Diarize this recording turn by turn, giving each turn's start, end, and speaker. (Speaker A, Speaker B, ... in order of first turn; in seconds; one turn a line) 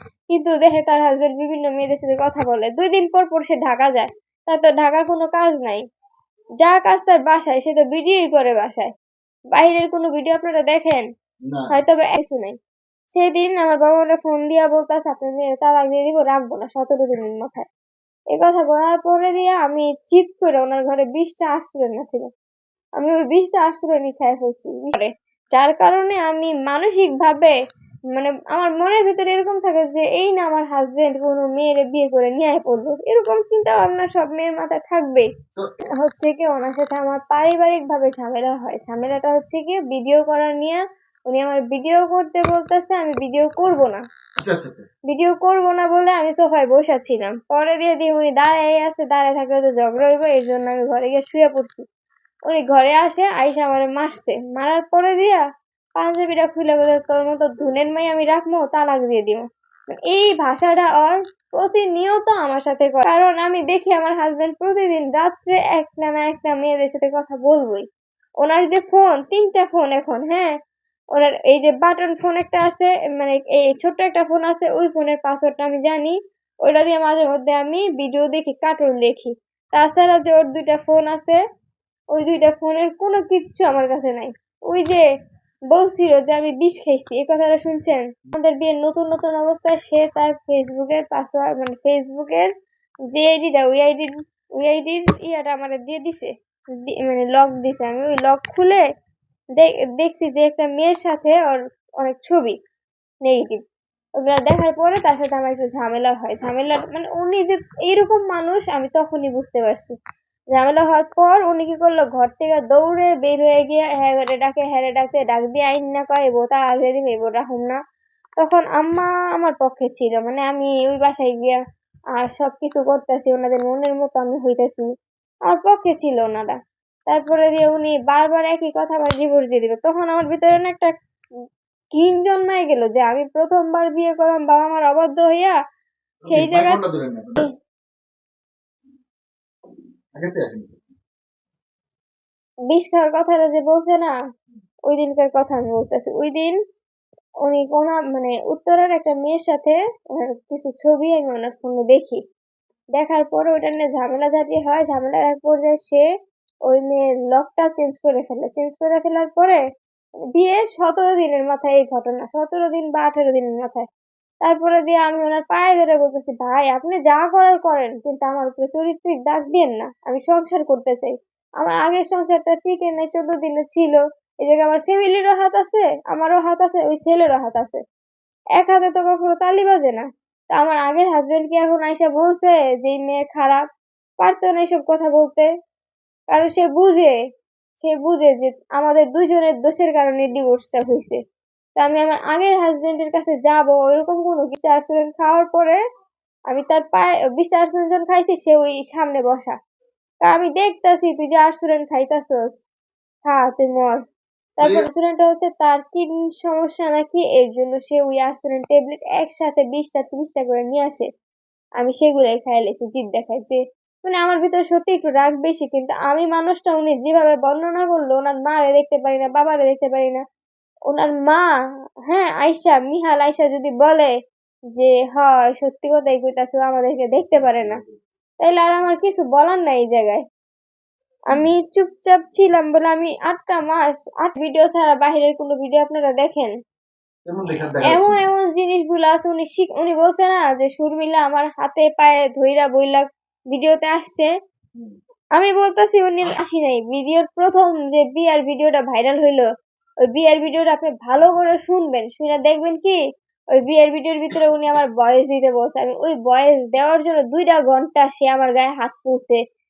Speaker A: 0.3-5.8
Speaker A: 6.6-8.9
Speaker A: 9.5-11.1
Speaker B: 11.5-11.7
Speaker A: 11.7-12.6
Speaker A: 13.1-17.7
Speaker A: 18.3-22.3
Speaker A: 23.0-27.5
Speaker A: 28.1-35.3
Speaker A: 36.0-44.0
Speaker B: 44.4-44.9
Speaker A: 45.1-51.9
Speaker A: 52.5-55.4
Speaker A: 56.0-67.9
Speaker A: 68.4-70.5
Speaker A: 71.2-81.4
Speaker A: 82.1-85.0
Speaker A: 85.7-92.5
Speaker A: 93.1-96.3
Speaker A: 96.9-98.8
Speaker A: 99.6-102.6
Speaker A: 103.2-103.6
Speaker A: 104.2-110.0
Speaker A: 110.5-117.8
Speaker A: 118.4-121.6
Speaker A: 122.2-124.8
Speaker A: 125.5-126.6
Speaker A: 127.1-130.9
Speaker A: 131.9-135.6
Speaker B: 136.2-137.4
Speaker A: 136.3-136.8
Speaker B: 140.2-140.8
Speaker A: 142.7-144.1
Speaker A: 144.9-146.6
Speaker A: 147.4-152.2
Speaker A: 153.0-156.0
Speaker A: 156.7-159.6
Speaker A: 160.3-163.9
Speaker A: 164.4-177.8
Speaker A: 178.6-183.7
Speaker A: 184.2-185.5
Speaker A: 186.3-187.1
Speaker A: 187.8-191.2
Speaker A: 191.8-195.8
Speaker A: 196.5-199.6
Speaker A: 200.2-202.6
Speaker A: 203.2-204.0
Speaker A: 204.6-211.1
Speaker B: 204.6-204.9
Speaker A: 211.8-220.2
Speaker A: 220.9-221.5
Speaker A: 222.1-224.1
Speaker A: 224.8-227.8
Speaker B: 227.4-228.0
Speaker A: 228.4-230.2
Speaker A: 231.3-236.5
Speaker B: 237.3-238.2
Speaker A: 237.8-244.3
Speaker A: 245.4-249.5
Speaker A: 250.1-253.0
Speaker A: 253.5-259.4